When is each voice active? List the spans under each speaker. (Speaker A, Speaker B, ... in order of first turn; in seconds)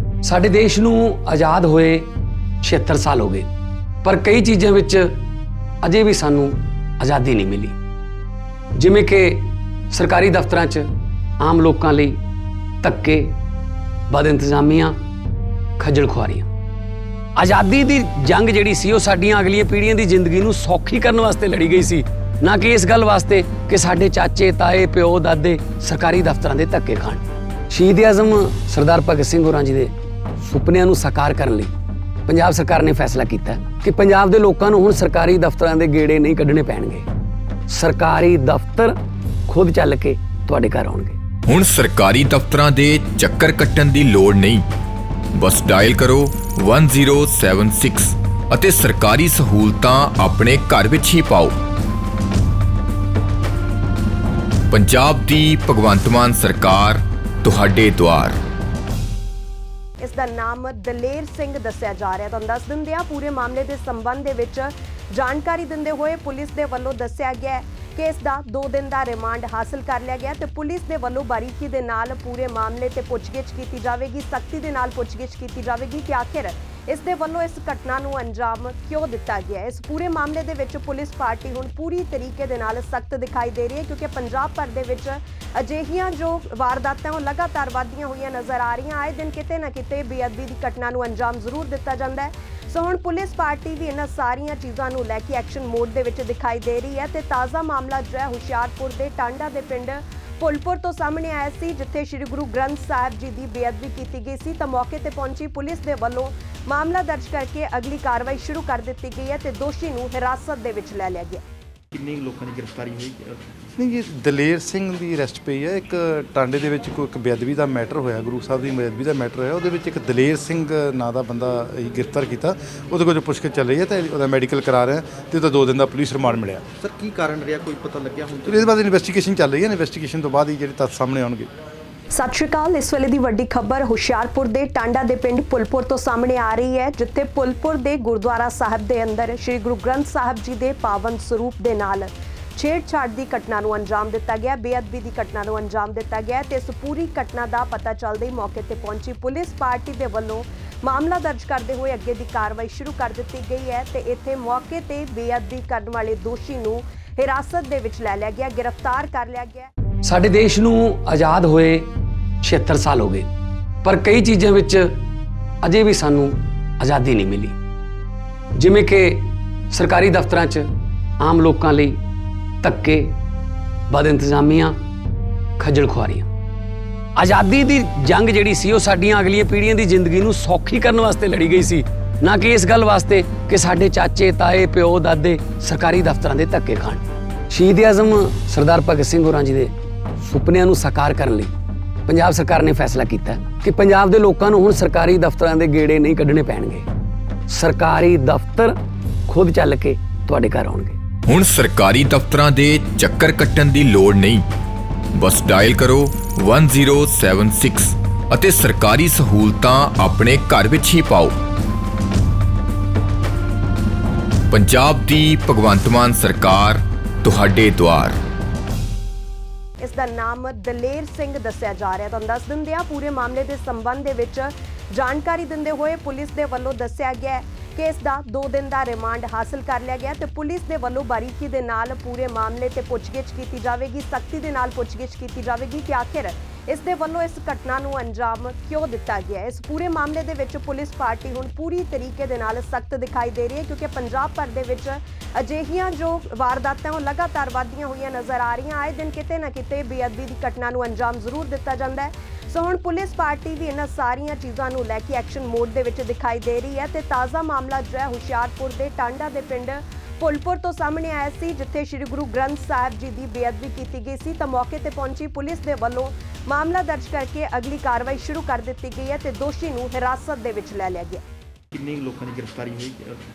Speaker A: 0.2-3.5, 4.0-5.2, 5.8-7.8, 8.8-10.9, 11.4-12.2, 12.8-13.4, 14.1-15.0, 15.8-16.5, 17.4-31.7, 32.2-37.1, 37.7-39.0, 39.5-41.2, 160.0-161.9, 162.4-163.3, 163.8-165.0, 165.6-167.6, 168.6-170.7, 171.2-172.0, 172.6-173.2, 173.9-174.8, 175.6-176.3, 177.2-191.5, 192.1-196.9, 197.5-198.8, 199.3-201.0
Speaker B: 41.5-44.6, 45.3-51.5, 54.7-58.4, 201.3-204.4, 205.1-211.3, 214.5-218.2
Speaker C: 60.0-111.4, 132.1-159.7, 219.8-271.2
Speaker D: 111.9-113.4, 126.7-128.8, 271.7-273.2
Speaker E: 113.8-126.6, 128.5-131.5